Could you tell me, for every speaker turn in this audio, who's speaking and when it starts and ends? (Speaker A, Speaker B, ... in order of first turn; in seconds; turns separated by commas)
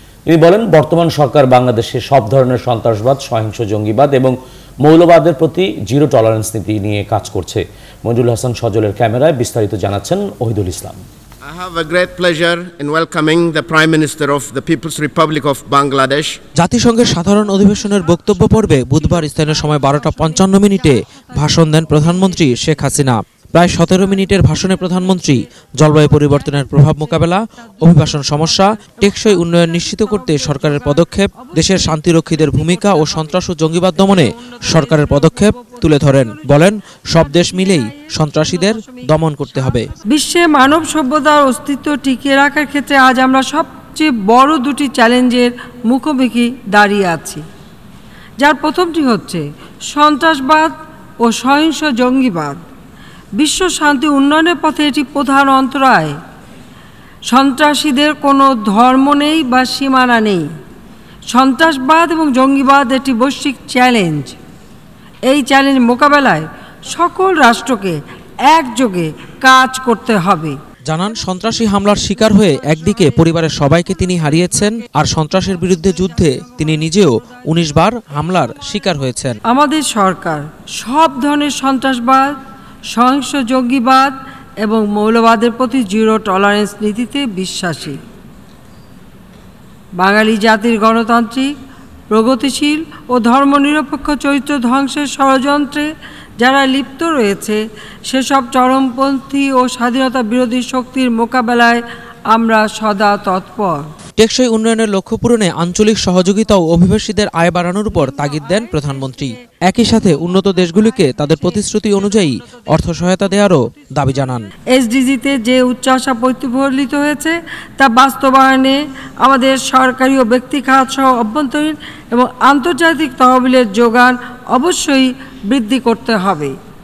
Speaker A: 0.3-11.0, Speaker B: 11.4-16.4, Speaker C: 16.6-39.9, Speaker D: 27.9-33.4, Speaker D: 33.9-36.1, Speaker D: 37.3-39.1, Speaker D: 40.0-47.4, Speaker D: 48.4-52.6, Speaker D: 53.4-56.2, Speaker D: 57.3-60.5, Speaker D: 61.3-64.4, Speaker D: 65.3-70.6, Speaker C: 70.9-79.4, Speaker D: 79.5-82.4, Speaker D: 82.9-88.0, Speaker D: 90.0-91.5, Speaker D: 92.1-103.9, Speaker C: 104.2-114.5, Speaker D: 114.7-126.5